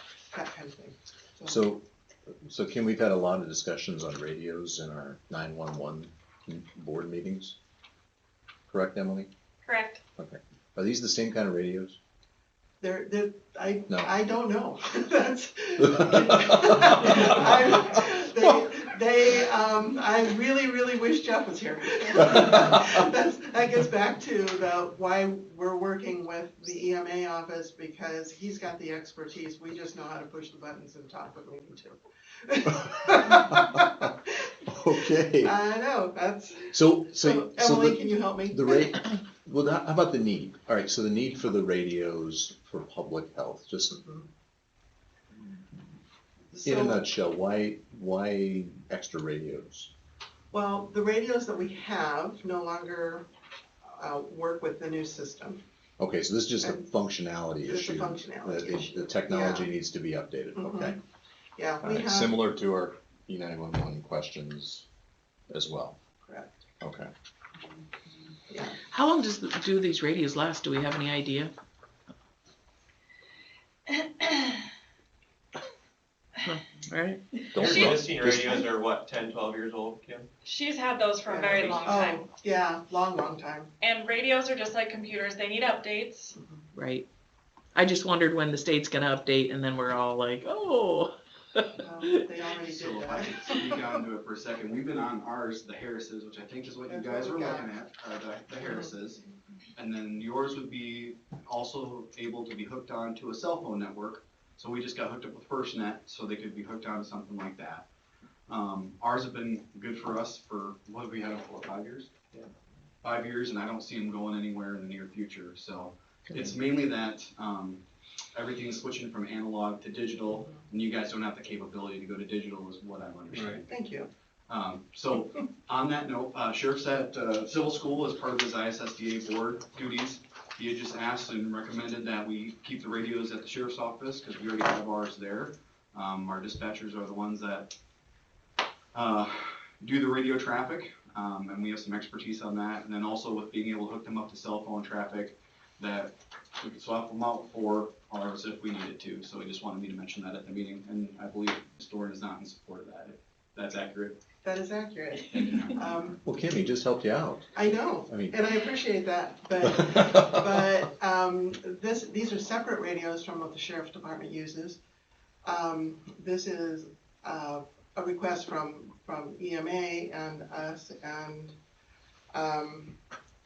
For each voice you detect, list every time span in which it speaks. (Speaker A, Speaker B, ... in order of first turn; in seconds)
Speaker A: 0.3-1.7, 12.8-34.1, 35.4-39.0, 46.5-47.0, 50.5-53.3, 53.9-55.6, 57.6-59.7, 60.5-61.0, 61.6-62.3, 66.2-66.6, 68.5-68.8, 81.2-83.7, 91.7-93.9, 96.9-97.7, 123.6-124.1, 154.4-156.2, 157.5-164.8, 165.4-171.5, 172.3-173.0
Speaker B: 1.4-1.8, 2.4-7.5, 8.7-9.3, 10.2-12.0, 33.3-33.8, 34.7-35.5, 36.7-44.0, 46.6-49.9, 56.0-61.0, 61.8-64.8, 65.5-66.0, 66.8-67.1, 77.5-78.7, 156.2-157.5, 158.1-158.3
Speaker C: 9.7-10.0, 77.6-78.0, 80.4-82.2, 83.8-86.3
Speaker D: 68.9-71.5, 76.4-77.2, 86.7-87.0, 87.7-91.8
Speaker E: 77.6-80.3
Speaker F: 92.6-99.2, 99.7-107.8, 108.5-112.4, 113.0-117.8, 118.3-123.6, 124.5-137.8, 138.9-154.2